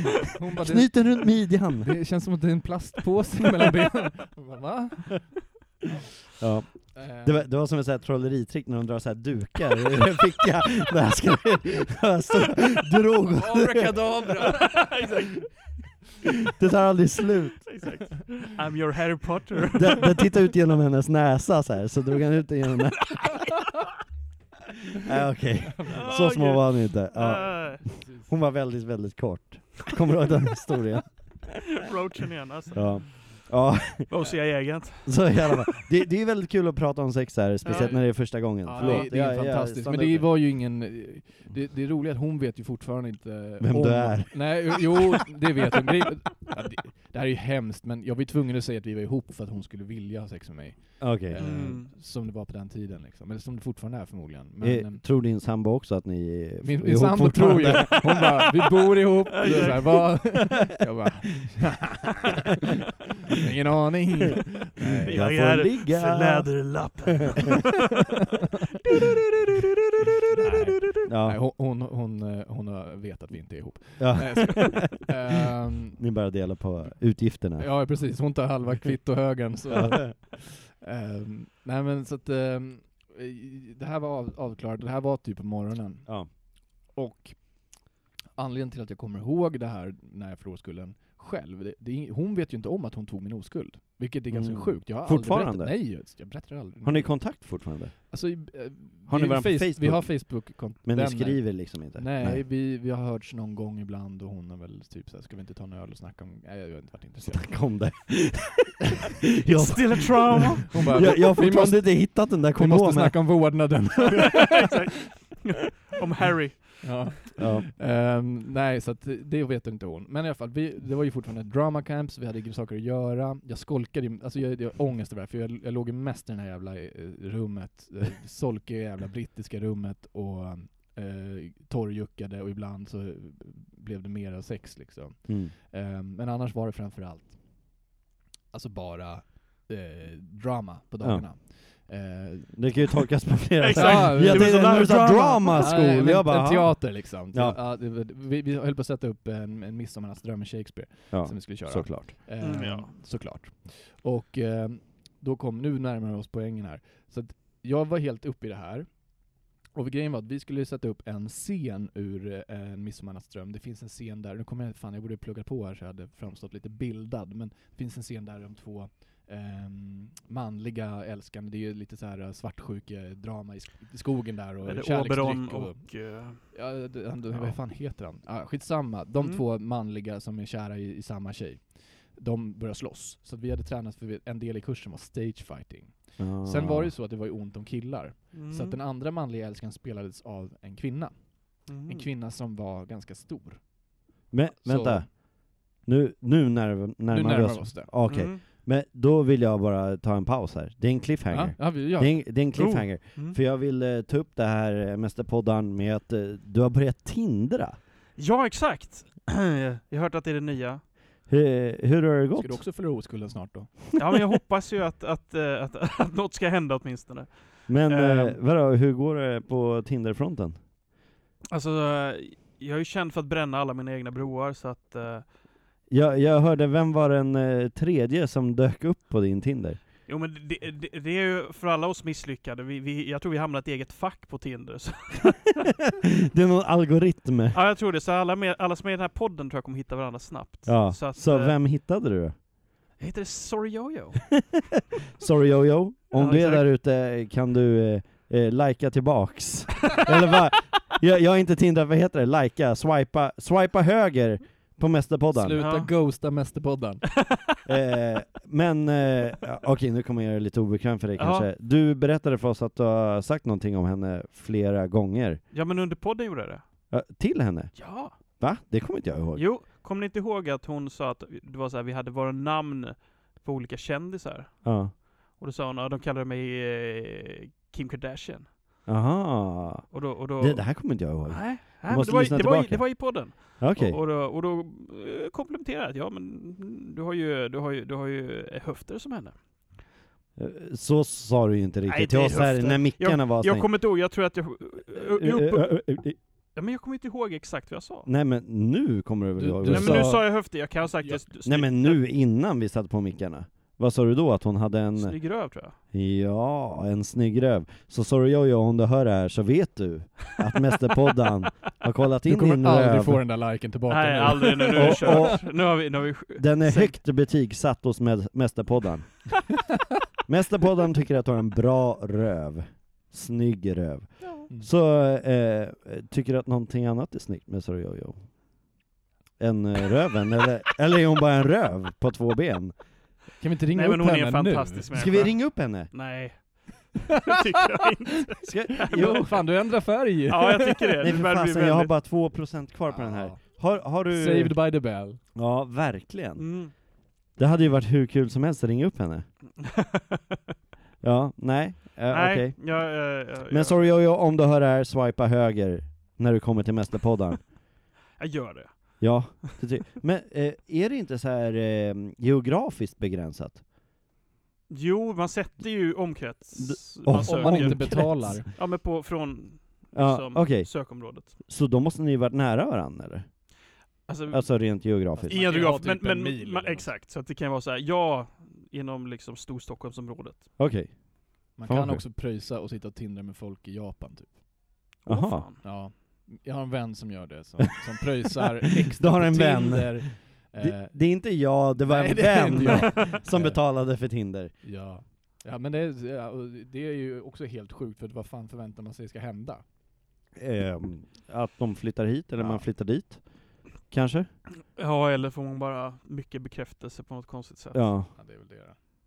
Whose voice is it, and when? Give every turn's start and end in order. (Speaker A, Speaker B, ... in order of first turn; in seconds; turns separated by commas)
Speaker A: 0.4-5.5, Speaker B: 0.6-2.0, Speaker B: 6.4-14.3, Speaker A: 6.9-7.5, Speaker A: 13.4-15.1, Speaker C: 14.8-16.0, Speaker B: 16.6-17.9, Speaker C: 17.7-20.2, Speaker B: 19.8-23.5, Speaker B: 25.1-31.6, Speaker C: 25.9-28.0, Speaker A: 28.0-28.3, Speaker C: 31.8-33.3, Speaker B: 32.7-40.5, Speaker C: 34.1-35.6, Speaker C: 37.6-39.1, Speaker A: 38.6-55.0, Speaker B: 43.6-44.8, Speaker B: 51.0-51.6, Speaker C: 51.4-51.9, Speaker B: 54.6-58.2, Speaker A: 56.6-62.5, Speaker C: 59.4-60.3, Speaker A: 63.4-65.3, Speaker B: 65.0-67.0, Speaker C: 65.0-67.7, Speaker C: 69.0-69.7, Speaker A: 70.3-76.1, Speaker B: 71.1-71.4, Speaker B: 74.0-75.1, Speaker B: 76.0-78.1, Speaker A: 77.1-107.9, Speaker B: 86.1-86.3, Speaker B: 94.3-96.2, Speaker B: 96.8-98.1, Speaker B: 99.1-102.4, Speaker B: 107.3-108.8, Speaker B: 109.4-113.8, Speaker C: 109.5-111.0, Speaker A: 110.7-114.7, Speaker C: 114.5-117.1, Speaker A: 116.8-137.9, Speaker B: 117.4-117.7, Speaker B: 135.3-135.5, Speaker A: 138.5-142.9, Speaker B: 141.0-141.3, Speaker B: 142.5-147.6, Speaker C: 143.6-146.0, Speaker A: 143.7-195.1, Speaker B: 151.1-152.1, Speaker C: 152.4-152.9, Speaker C: 174.6-177.6, Speaker B: 186.2-186.9, Speaker C: 188.3-188.8, Speaker C: 191.7-192.1, Speaker B: 194.3-207.8, Speaker A: 197.1-197.9, Speaker C: 198.1-198.4, Speaker A: 201.3-202.2, Speaker C: 202.3-203.4, Speaker C: 208.2-210.8, Speaker B: 211.3-212.7, Speaker A: 212.4-214.0, Speaker C: 214.0-218.4, Speaker B: 217.7-220.6, Speaker C: 221.5-225.4, Speaker B: 225.9-229.8, Speaker C: 230.1-235.6, Speaker B: 236.3-237.6, Speaker C: 237.5-241.6, Speaker B: 240.7-242.3, Speaker C: 243.0-244.5, Speaker B: 245.2-255.6, Speaker C: 246.1-246.7, Speaker A: 255.3-257.1, Speaker C: 255.6-255.9, Speaker B: 257.7-265.4, Speaker C: 261.2-261.5, Speaker C: 265.5-266.8, Speaker B: 266.9-269.5, Speaker C: 267.8-268.2, Speaker C: 269.4-278.5, Speaker B: 274.6-275.0, Speaker B: 278.9-284.0, Speaker C: 279.9-289.7, Speaker B: 290.4-293.8, Speaker C: 291.9-298.1, Speaker B: 294.9-296.2, Speaker B: 298.1-300.3, Speaker A: 299.4-301.2, Speaker C: 299.7-302.1, Speaker B: 301.4-313.3, Speaker C: 304.9-305.8, Speaker A: 312.3-315.3, Speaker C: 313.9-317.0, Speaker B: 314.7-319.6, Speaker B: 320.3-328.8, Speaker B: 329.4-333.1, Speaker A: 333.4-334.9, Speaker C: 333.7-342.0, Speaker B: 334.9-335.9, Speaker B: 338.4-339.4, Speaker A: 338.9-341.0, Speaker B: 341.0-344.7, Speaker A: 342.9-345.2, Speaker B: 345.3-349.4, Speaker C: 346.4-346.7, Speaker B: 351.0-357.6, Speaker C: 352.1-354.1, Speaker C: 358.2-359.4, Speaker B: 359.0-363.6, Speaker C: 364.7-371.3, Speaker B: 366.6-368.4, Speaker A: 367.1-368.5, Speaker B: 369.9-373.8, Speaker C: 374.1-380.7, Speaker B: 374.3-375.6, Speaker A: 375.1-376.9, Speaker B: 380.6-382.0, Speaker A: 381.6-384.5, Speaker C: 385.1-385.6, Speaker B: 385.1-385.5, Speaker A: 385.6-399.6, Speaker B: 389.0-394.6, Speaker B: 400.4-404.4, Speaker A: 402.4-402.6, Speaker C: 404.7-408.0, Speaker B: 407.7-408.1, Speaker A: 408.1-408.8